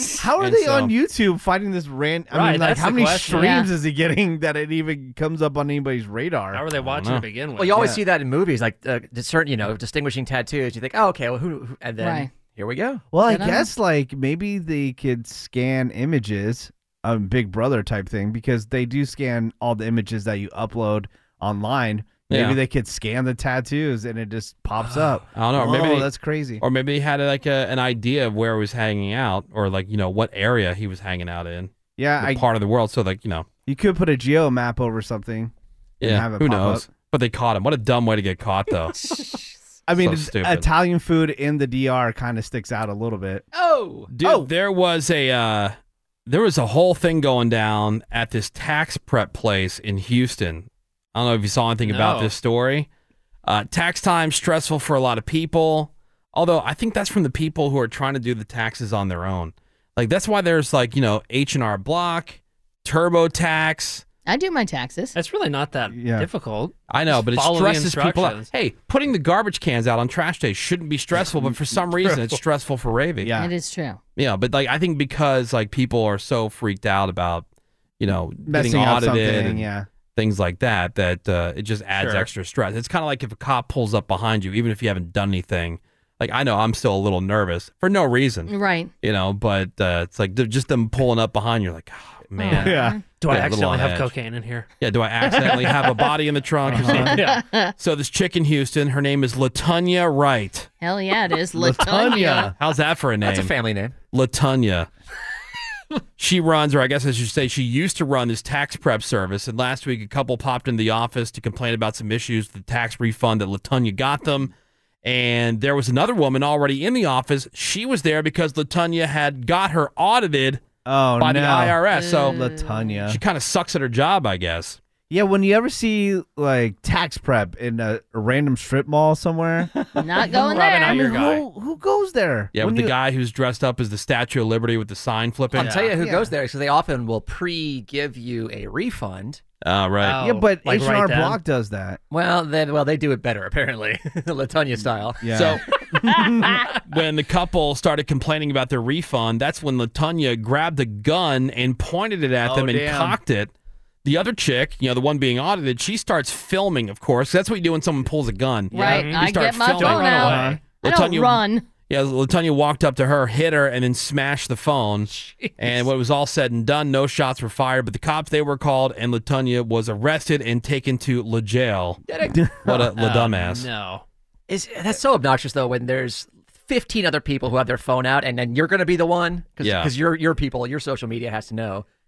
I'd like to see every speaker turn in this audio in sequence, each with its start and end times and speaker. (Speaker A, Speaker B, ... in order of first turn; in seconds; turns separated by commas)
Speaker A: 0.2-6.6, Speaker B: 0.4-0.9, Speaker C: 2.3-3.6, Speaker D: 3.3-3.7, Speaker C: 6.5-7.9, Speaker B: 6.8-7.3, Speaker E: 7.5-13.0, Speaker A: 7.7-8.0, Speaker D: 12.0-12.3, Speaker A: 13.1-26.6, Speaker D: 13.2-13.7, Speaker B: 22.3-22.6, Speaker B: 25.3-26.1, Speaker B: 26.6-33.5, Speaker A: 32.0-32.4, Speaker A: 33.7-36.9, Speaker B: 36.0-39.0, Speaker A: 39.9-43.4, Speaker B: 40.0-40.6, Speaker E: 43.5-44.1, Speaker B: 44.1-45.7, Speaker A: 44.2-44.5, Speaker B: 46.2-52.9, Speaker C: 51.8-52.3, Speaker B: 53.4-64.0, Speaker D: 64.3-65.2, Speaker C: 65.1-68.5, Speaker A: 65.9-66.3, Speaker B: 66.9-73.3, Speaker C: 72.0-72.4, Speaker A: 73.2-73.5, Speaker D: 73.4-74.0, Speaker B: 74.2-77.4, Speaker B: 78.0-94.1, Speaker A: 78.4-79.9, Speaker C: 82.0-82.3, Speaker D: 88.5-88.9, Speaker D: 92.4-93.0, Speaker A: 92.5-93.0, Speaker C: 93.2-94.7, Speaker B: 94.8-97.3, Speaker C: 95.3-96.1, Speaker A: 96.6-97.2, Speaker C: 96.7-97.4, Speaker D: 96.9-97.7, Speaker B: 97.8-100.7, Speaker D: 100.8-102.5, Speaker A: 101.5-102.5, Speaker B: 102.6-103.5, Speaker E: 103.2-103.9, Speaker B: 104.1-104.9, Speaker B: 106.2-114.5, Speaker B: 115.0-120.6, Speaker A: 120.8-123.2, Speaker B: 121.2-122.4, Speaker D: 121.9-122.9, Speaker B: 123.1-124.8, Speaker A: 125.1-129.7, Speaker D: 130.0-131.2, Speaker C: 130.1-131.4, Speaker A: 130.5-132.9, Speaker B: 132.5-135.9, Speaker E: 135.5-139.4, Speaker A: 135.6-136.2, Speaker B: 139.6-140.2, Speaker C: 140.0-141.4, Speaker A: 140.2-142.0, Speaker E: 142.1-145.4, Speaker A: 145.2-146.6, Speaker B: 145.3-145.6, Speaker B: 146.9-153.5, Speaker A: 152.4-153.2, Speaker B: 154.0-172.0, Speaker C: 158.7-160.6, Speaker D: 158.7-161.7, Speaker A: 160.1-160.6, Speaker C: 165.1-165.9, Speaker A: 172.3-172.8, Speaker B: 172.6-173.7, Speaker C: 172.9-174.0, Speaker E: 174.5-181.8, Speaker B: 179.6-179.9